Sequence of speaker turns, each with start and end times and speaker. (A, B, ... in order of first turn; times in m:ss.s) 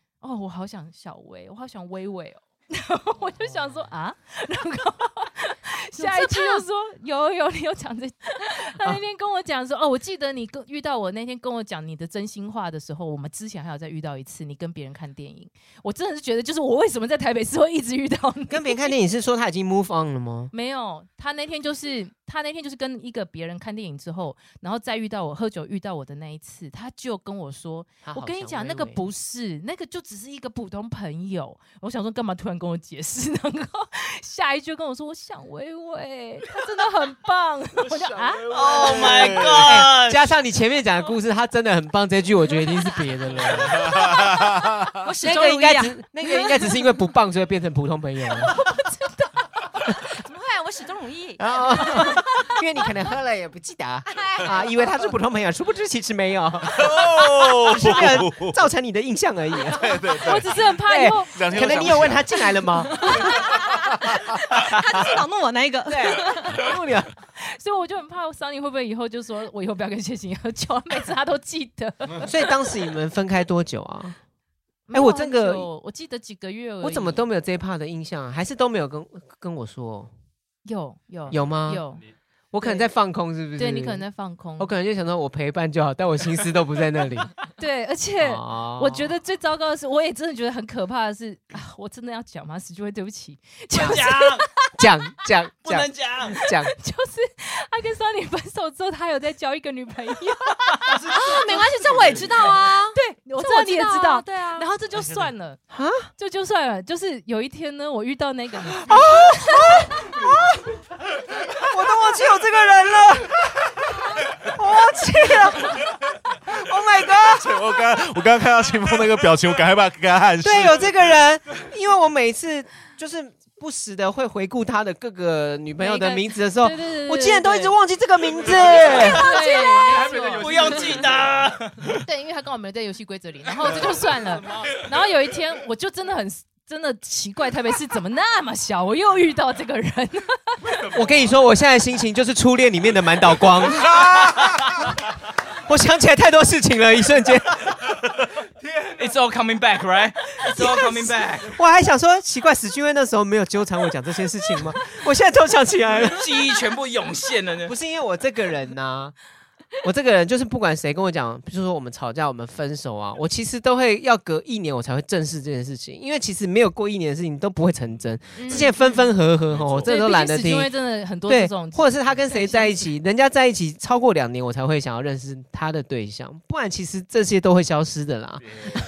0:00.2-0:18.9 A
0:06.0-0:06.6 B
0:18.5-0:20.5 C
0:20.5-0:38.5 A
0:28.0-0:29.0 C
0:37.8-0:39.7 D
0:38.5-0:40.2 E
0:39.6-0:44.2 C
0:43.6-0:45.0 D
0:45.0-0:46.1 B
0:45.2-0:48.5 C
0:48.5-0:49.2 A
0:49.9-0:52.2 B
0:51.4-1:03.2 C
0:54.1-0:54.8 B
0:56.7-0:58.6 D
0:59.7-1:00.6 D
1:00.2-1:01.3 A
1:01.3-1:02.4 D
1:03.0-1:06.6 B
1:05.8-1:07.1 C
1:07.4-1:12.3 A
1:12.2-1:14.2 C
1:14.9-1:17.2 A
1:14.9-1:15.7 C
1:16.8-1:20.1 C
1:20.6-1:22.0 A
1:21.3-1:21.8 C
1:22.5-1:24.0 C
1:23.6-1:24.7 A
1:24.6-1:27.3 C
1:27.6-1:34.5 A
1:28.2-1:29.1 C
1:33.7-1:34.5 E
1:34.8-1:36.7 C
1:35.6-1:36.3 E
1:36.5-1:40.9 A
1:40.9-1:41.1 E
1:41.0-1:44.7 B
1:42.9-1:45.6 A
1:45.7-1:46.1 C
1:46.2-1:49.9 A
1:48.8-1:50.7 C
1:51.6-1:53.5 C
1:54.4-1:55.9 C
1:56.5-1:57.6 C
1:57.1-2:01.1 D
2:00.4-2:09.3 C
2:05.8-2:06.2 B
2:06.6-2:07.7 A
2:08.8-2:11.1 A
2:09.3-2:09.8 B
2:10.0-2:11.9 E
2:12.0-2:20.6 A
2:20.9-2:24.7 C
2:25.6-2:27.7 C
2:28.9-2:31.6 E
2:31.4-2:36.3 C
2:36.0-2:37.7 E
2:37.6-2:39.2 C
2:39.8-2:58.6 C
2:48.4-2:49.1 A
2:49.5-2:49.9 D
2:49.8-2:52.9 A